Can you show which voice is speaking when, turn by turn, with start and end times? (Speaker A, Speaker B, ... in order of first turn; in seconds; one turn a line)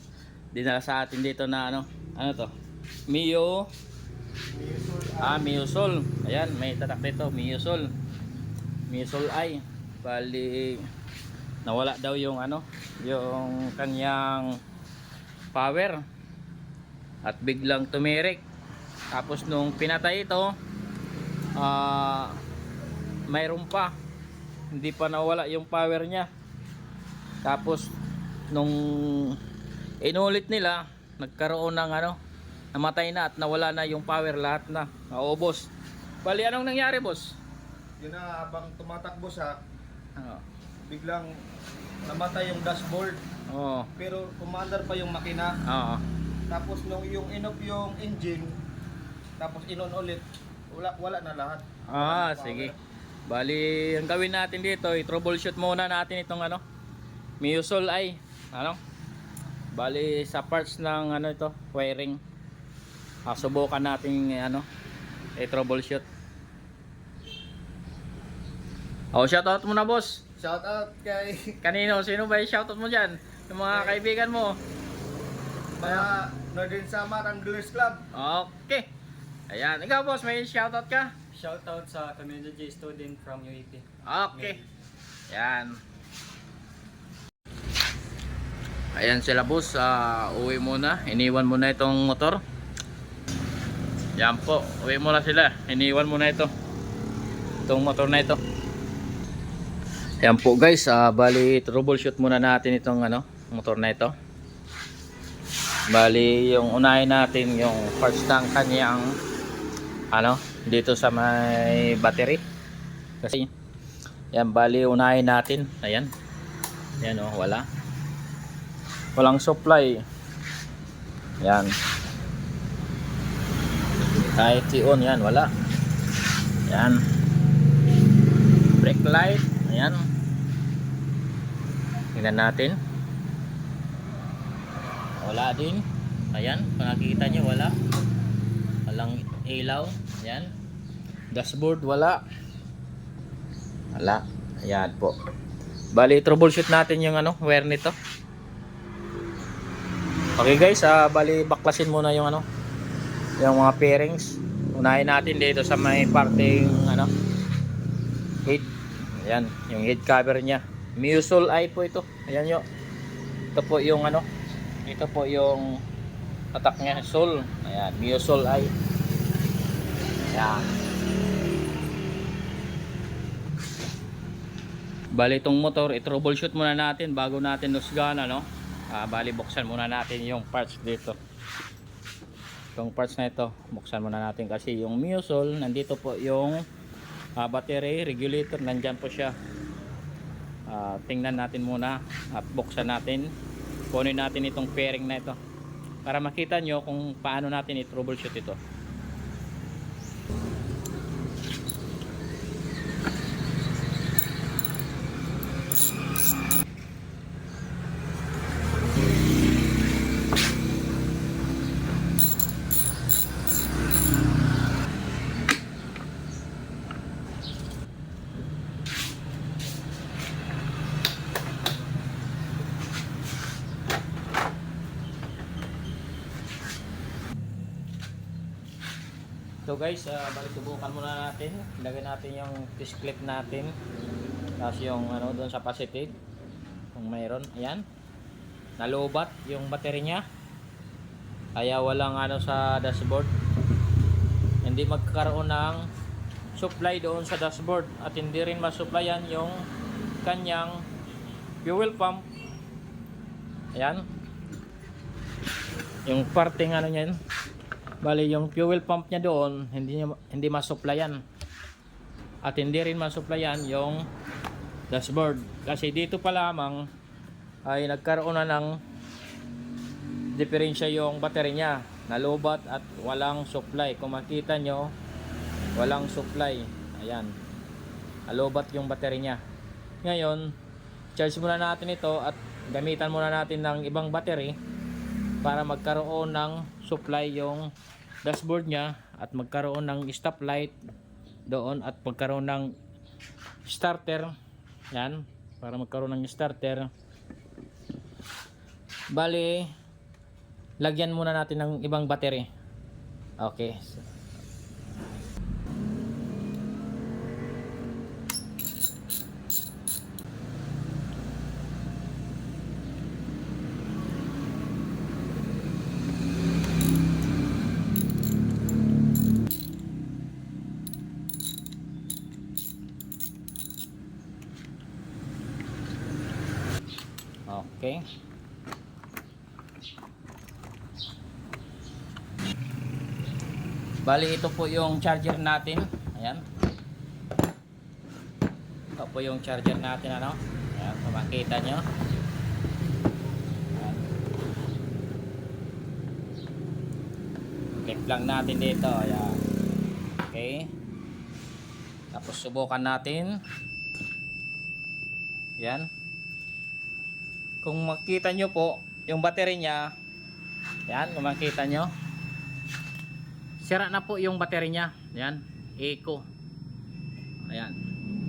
Speaker A: 0.5-2.5
Speaker A: 3.1-3.7
Speaker B: 4.5-5.3
Speaker A: 5.2-7.9
Speaker A: 8.9-10.8
Speaker A: 11.6-14.6
Speaker A: 15.5-16.0
Speaker A: 17.2-18.4
Speaker A: 19.1-20.5
Speaker A: 21.5-22.4
Speaker A: 23.3-23.9
Speaker A: 24.7-26.3
Speaker A: 27.4-27.9
Speaker A: 28.5-29.4
Speaker A: 30.0-32.2
Speaker A: 32.7-35.7
Speaker A: 36.2-37.4
Speaker B: 38.0-39.6
Speaker A: 40.2-40.4
Speaker B: 40.9-41.3
Speaker B: 42.0-43.2
Speaker A: 43.5-43.9
Speaker B: 44.0-45.5
Speaker A: 45.6-46.0
Speaker B: 46.5-48.6
Speaker B: 49.4-52.7
Speaker A: 51.9-52.7
Speaker A: 53.3-56.6
Speaker A: 57.4-58.8
Speaker A: 59.7-62.2
Speaker A: 63.2-64.7
Speaker A: 65.3-66.0
Speaker A: 69.1-70.2
Speaker B: 70.4-71.5
Speaker A: 71.6-74.6
Speaker B: 73.7-74.0
Speaker B: 75.8-78.1
Speaker A: 78.1-78.9
Speaker A: 79.5-81.2
Speaker C: 81.3-83.8
Speaker A: 84.0-84.6
Speaker A: 85.3-85.8
Speaker A: 88.9-92.4
Speaker A: 94.2-96.5
Speaker A: 97.7-98.4
Speaker A: 100.2-104.1
Speaker A: 105.9-109.2
Speaker A: 110.1-112.4
Speaker A: 113.2-113.5
Speaker A: 114.3-116.1
Speaker A: 117.0-117.7
Speaker A: 119.1-120.0
Speaker A: 121.4-121.7
Speaker A: 124.1-125.5
Speaker A: 126.7-127.0
Speaker A: 128.8-130.0
Speaker A: 132.1-132.8
Speaker A: 135.2-137.8
Speaker A: 138.8-140.5
Speaker A: 141.3-142.2
Speaker A: 143.9-145.1
Speaker A: 145.9-147.9
Speaker A: 150.4-152.4
Speaker A: 153.4-157.1
Speaker A: 158.4-162.6
Speaker A: 163.5-164.2
Speaker A: 164.8-165.8
Speaker A: 166.5-168.7
Speaker A: 170.3-170.7
Speaker A: 175.1-181.2
Speaker A: 182.8-186.6
Speaker A: 187.4-189.3
Speaker A: 190.7-193.3
Speaker A: 193.9-195.4
Speaker A: 196.0-198.6
Speaker A: 229.6-233.8
Speaker A: 234.6-236.1
Speaker A: 236.9-237.8
Speaker A: 238.8-240.2
Speaker A: 241.6-243.3
Speaker A: 244.6-245.9
Speaker A: 246.5-249.7
Speaker A: 250.2-250.8
Speaker A: 251.6-252.2
Speaker A: 253.7-254.1
Speaker A: 256.1-257.2
Speaker A: 258.0-261.2
Speaker A: 262.4-264.0
Speaker A: 264.9-266.9
Speaker A: 267.6-268.8
Speaker A: 270.3-274.9
Speaker A: 275.8-277.3
Speaker A: 278.3-279.4
Speaker A: 280.0-280.5
Speaker A: 281.1-284.6
Speaker A: 285.4-287.7
Speaker A: 288.2-290.8
Speaker A: 291.5-292.7
Speaker A: 293.6-294.3
Speaker A: 294.9-296.9
Speaker A: 299.1-299.7
Speaker A: 300.8-302.5
Speaker A: 303.4-304.0
Speaker A: 327.5-328.0
Speaker A: 334.0-336.4
Speaker A: 339.0-341.8
Speaker A: 343.8-344.0
Speaker A: 347.8-349.4
Speaker A: 350.3-350.7
Speaker A: 352.1-353.4
Speaker A: 355.6-355.9
Speaker A: 357.6-359.9
Speaker A: 360.9-361.9
Speaker A: 363.6-366.2
Speaker A: 367.5-367.8